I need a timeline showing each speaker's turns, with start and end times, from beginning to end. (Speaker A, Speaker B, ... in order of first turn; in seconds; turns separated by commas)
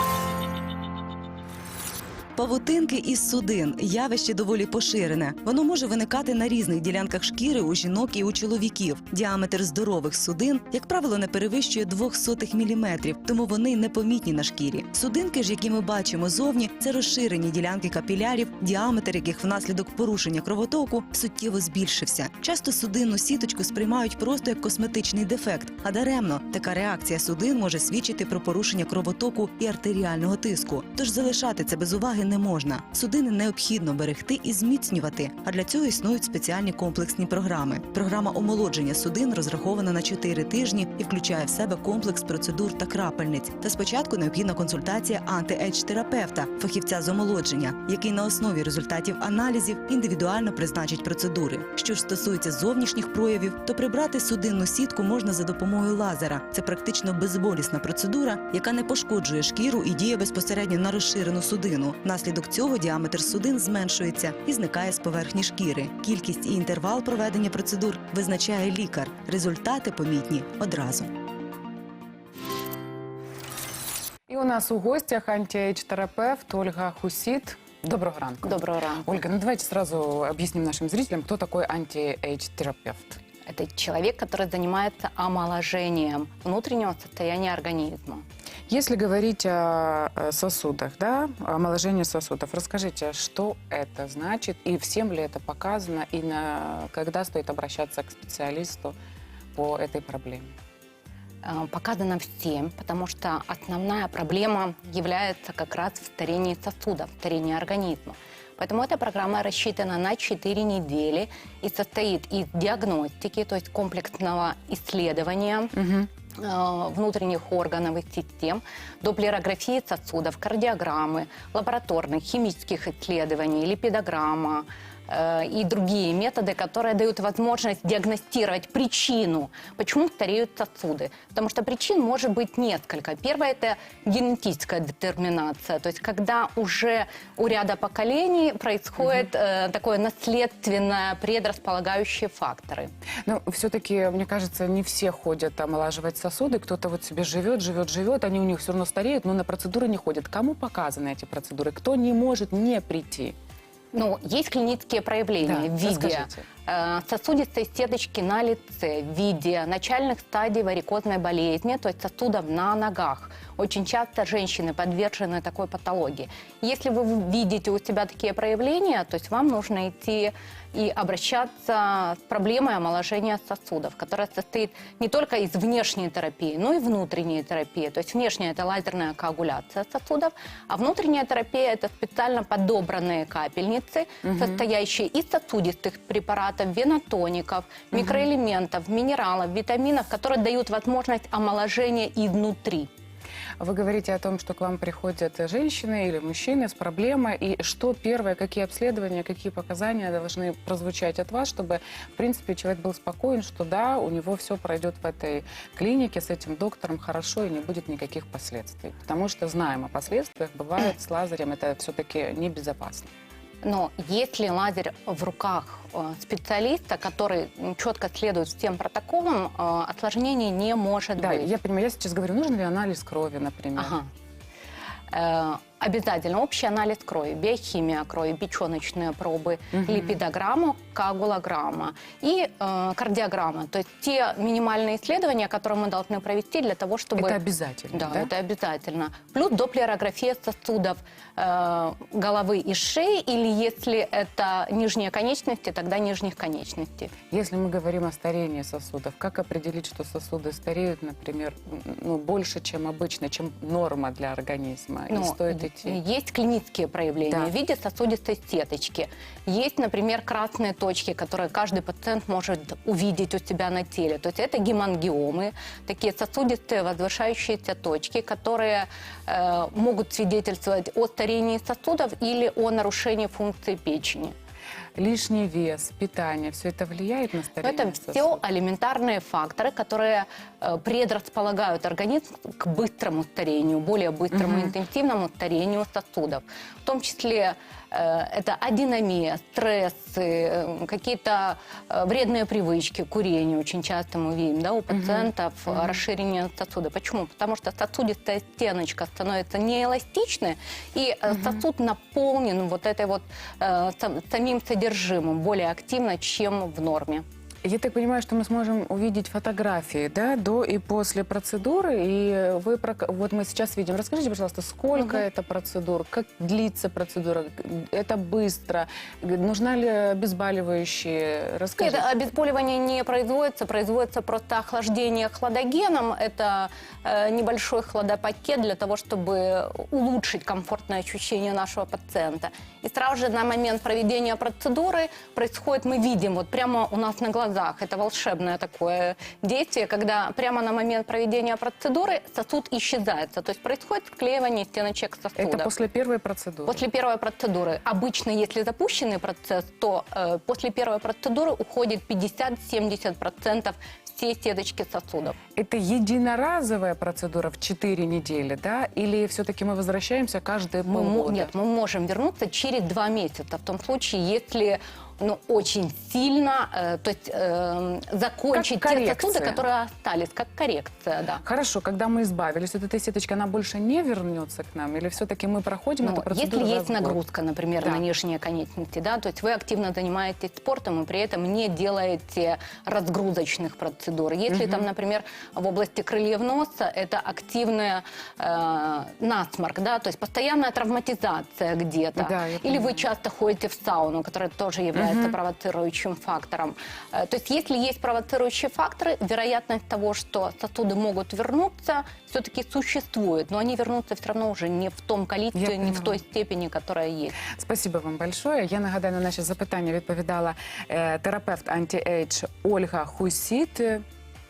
Speaker A: 2.4-71.1, Speaker B: 74.3-83.2, Speaker C: 78.4-79.1, Speaker C: 83.5-88.2, Speaker B: 88.7-99.0, Speaker B: 99.5-100.5, Speaker C: 101.4-115.8, Speaker B: 115.8-116.1, Speaker C: 116.4-142.9, Speaker B: 139.0-139.3, Speaker B: 143.3-153.3, Speaker C: 153.9-192.9, Speaker B: 155.4-156.5, Speaker B: 184.2-184.6, Speaker B: 187.9-188.3, Speaker B: 193.6-213.1, Speaker C: 213.6-221.5, Speaker B: 221.2-223.9, Speaker C: 223.8-224.1, Speaker C: 225.1-237.4, Speaker B: 229.7-230.2, Speaker B: 237.2-238.3, Speaker C: 237.9-247.1, Speaker B: 247.3-256.0, Speaker C: 255.1-274.4, Speaker B: 275.0-278.4, Speaker C: 277.6-307.2, Speaker B: 284.3-284.7, Speaker B: 294.9-296.0, Speaker B: 301.3-301.6, Speaker B: 307.6-322.0, Speaker C: 314.9-315.2, Speaker C: 321.8-345.7, Speaker B: 345.4-346.8, Speaker C: 346.7-355.4, Speaker B: 355.6-361.5, Speaker C: 360.9-371.4, Speaker B: 368.5-369.6, Speaker B: 371.4-377.2, Speaker C: 376.0-407.4, Speaker B: 384.5-384.9, Speaker B: 392.2-393.1, Speaker B: 394.9-395.4, Speaker B: 405.5-406.2, Speaker B: 407.4-414.0